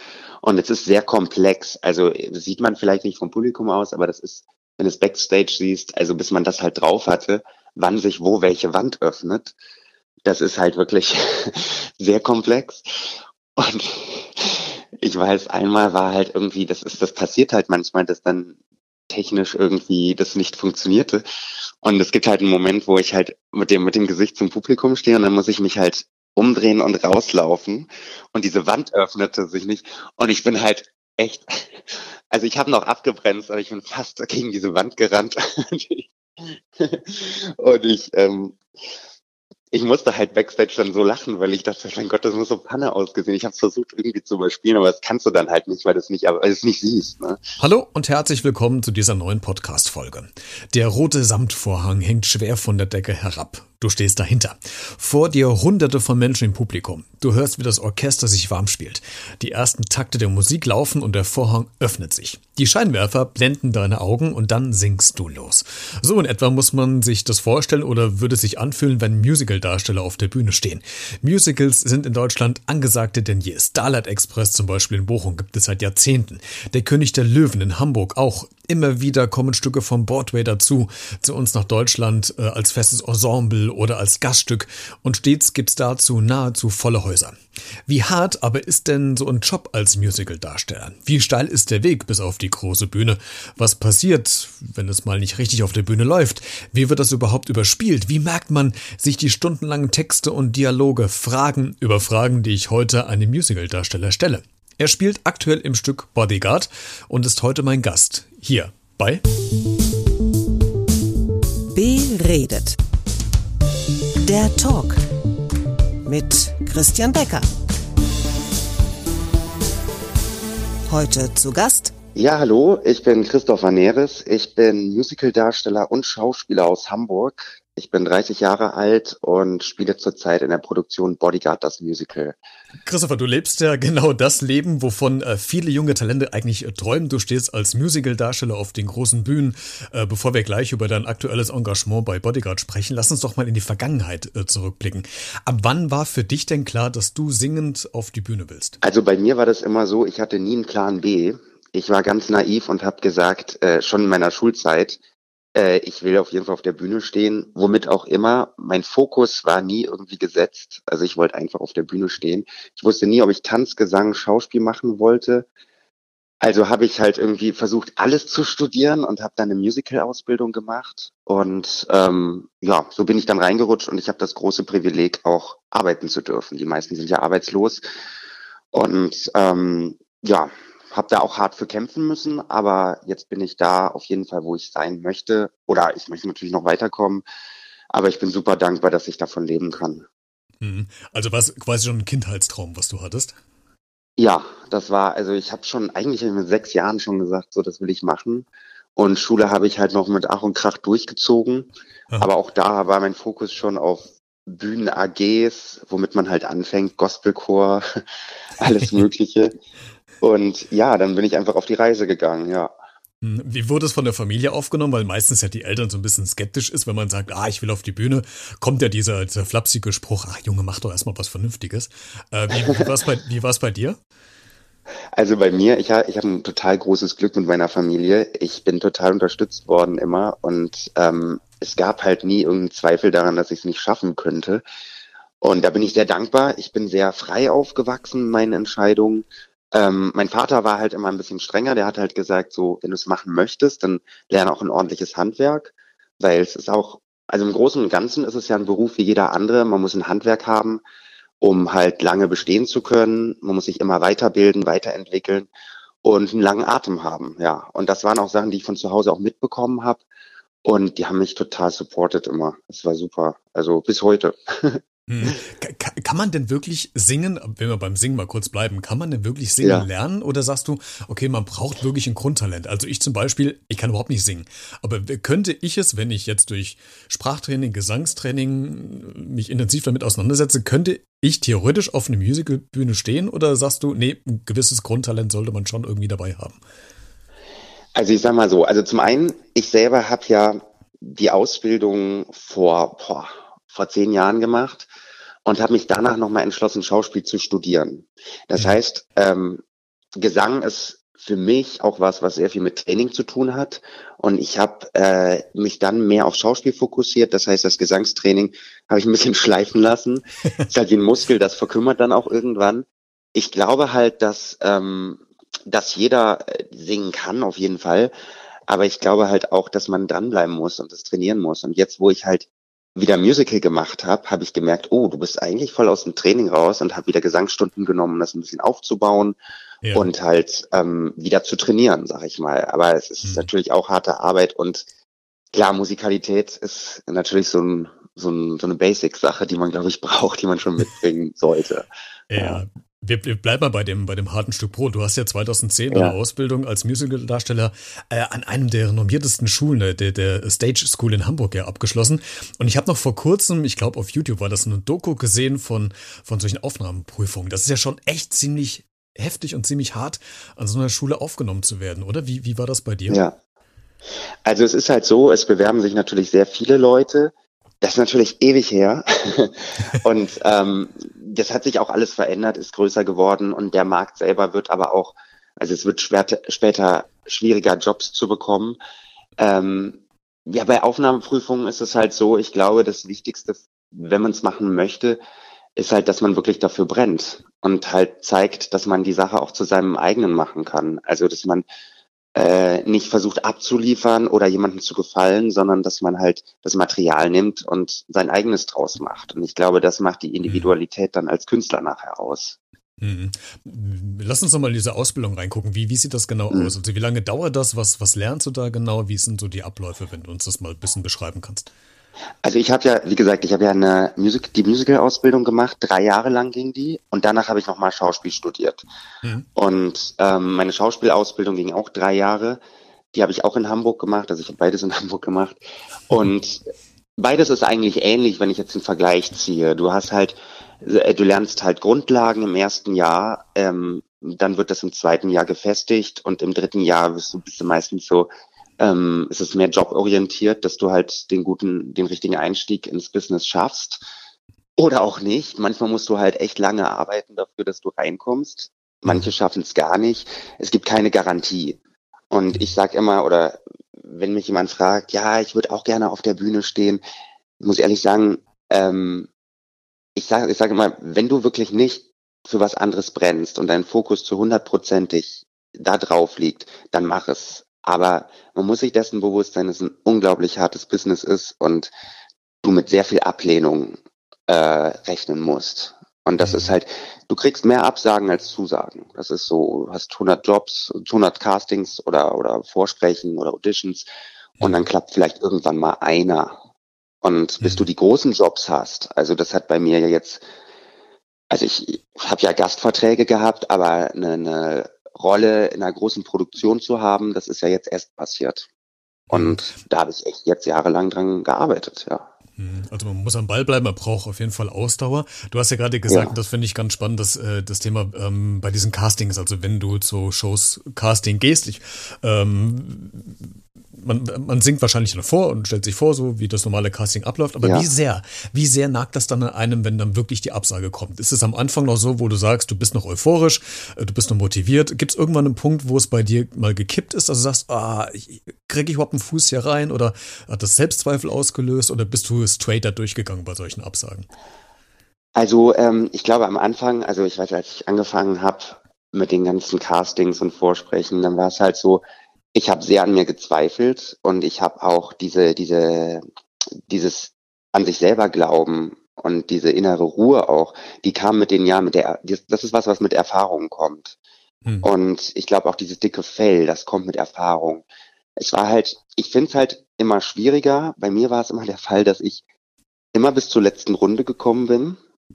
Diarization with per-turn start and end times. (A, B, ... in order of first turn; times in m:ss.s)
0:00.4-0:09.5 A
0:10.2-0:18.6 A
0:19.1-0:21.2 A
0:21.8-0:38.6 A
0:39.7-0:47.4 A
0:47.6-1:49.2 B
1:51.7-1:52.8 C
1:54.2-1:55.0 C
1:56.0-1:57.5 C
2:00.9-2:01.9 C
2:02.2-2:12.4 A
2:12.8-2:28.8 B
2:28.8-2:35.0 A
2:35.6-2:45.5 A
2:46.4-2:57.8 A
2:58.7-3:07.2 A
3:07.9-3:10.1 A
3:10.6-3:13.4 B
3:14.2-3:21.7 A
3:22.2-3:28.0 A
3:28.6-3:29.6 A
3:30.2-3:32.7 A
3:33.2-3:44.0 B
3:45.1-3:54.6 A
3:55.4-4:10.8 A
4:11.4-4:15.5 A
4:16.0-4:20.0 A
4:20.6-4:25.4 A
4:25.1-4:46.6 B
4:29.6-4:29.9 A
4:48.0-4:54.9 A
4:55.4-4:59.6 A
5:00.2-5:18.1 A
5:18.7-5:29.4 A
5:29.8-5:30.1 B
5:29.9-5:34.9 A
5:33.2-5:33.5 B
5:35.5-5:42.6 A
5:42.3-6:03.2 B
5:45.9-5:46.2 A
6:03.1-6:03.4 A
6:04.4-6:18.8 A
6:19.4-6:25.2 A
6:25.8-6:31.7 A
6:32.4-6:42.6 A
6:40.5-6:40.7 B
6:43.0-6:51.7 B
6:52.4-6:58.8 A
6:59.6-7:02.6 A
7:03.1-7:05.6 A
7:06.1-7:06.6 A
7:07.2-7:24.0 A
7:24.8-7:31.8 A
7:29.0-7:29.3 B
7:32.3-7:37.0 A
7:37.6-7:39.3 A
7:40.2-7:51.9 A
7:52.6-7:54.0 A
7:54.5-8:04.1 A
7:56.4-7:56.8 B
8:04.6-8:04.9 B
8:04.6-8:06.6 A
8:07.2-8:10.4 A
8:07.6-8:07.9 B
8:11.5-8:18.7 A
8:19.3-8:19.7 B
8:19.3-8:22.3 A
8:22.6-8:54.3 B
8:26.1-8:26.3 A
8:37.6-8:37.9 A
8:55.4-9:06.2 A
9:06.9-9:14.2 A
9:14.8-9:17.9 A
9:18.4-9:22.4 A
9:23.1-9:25.0 A